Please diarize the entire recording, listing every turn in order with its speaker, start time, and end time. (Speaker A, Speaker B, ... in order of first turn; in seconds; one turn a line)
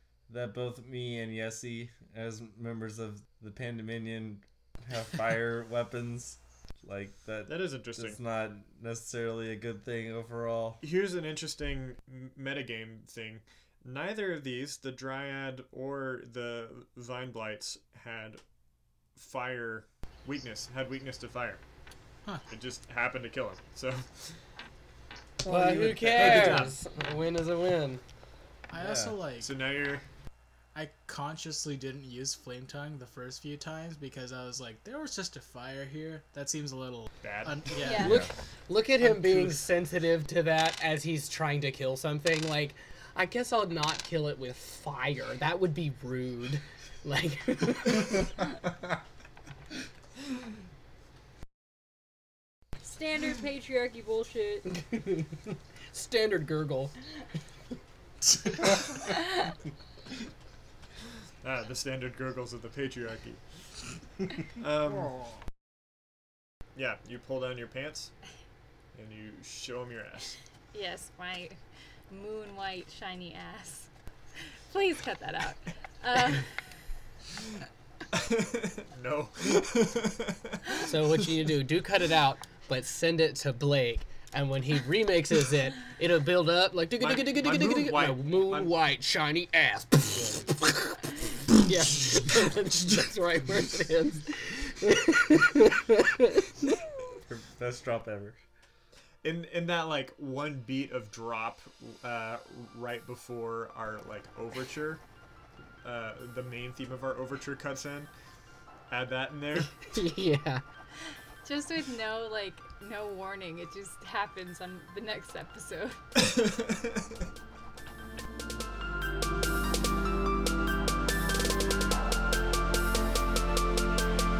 Speaker A: 0.3-10.8
Speaker B: 7.5-8.2
Speaker B: 10.8-18.4
Speaker B: 19.1-21.6
Speaker B: 22.5-24.3
Speaker A: 25.4-26.7
Speaker C: 25.4-28.0
Speaker B: 25.7-26.7
Speaker D: 28.7-29.5
Speaker A: 28.8-29.1
Speaker B: 29.4-30.0
Speaker D: 30.7-38.2
Speaker B: 37.2-38.0
Speaker E: 37.8-38.2
Speaker C: 38.0-48.3
Speaker D: 39.0-39.7
Speaker E: 52.8-54.7
Speaker C: 54.7-56.9
Speaker B: 61.4-63.4
Speaker B: 64.4-65.2
Speaker B: 66.8-68.1
Speaker B: 68.9-70.4
Speaker E: 70.7-71.6
Speaker E: 72.1-76.8
Speaker B: 78.1-81.2
Speaker C: 80.8-96.5
Speaker B: 87.0-88.7
Speaker A: 97.2-98.4
Speaker B: 99.2-105.0
Speaker B: 105.8-108.1
Speaker B: 108.9-109.8
Speaker C: 109.9-110.6
Speaker E: 111.0-116.0
Speaker B: 116.2-117.3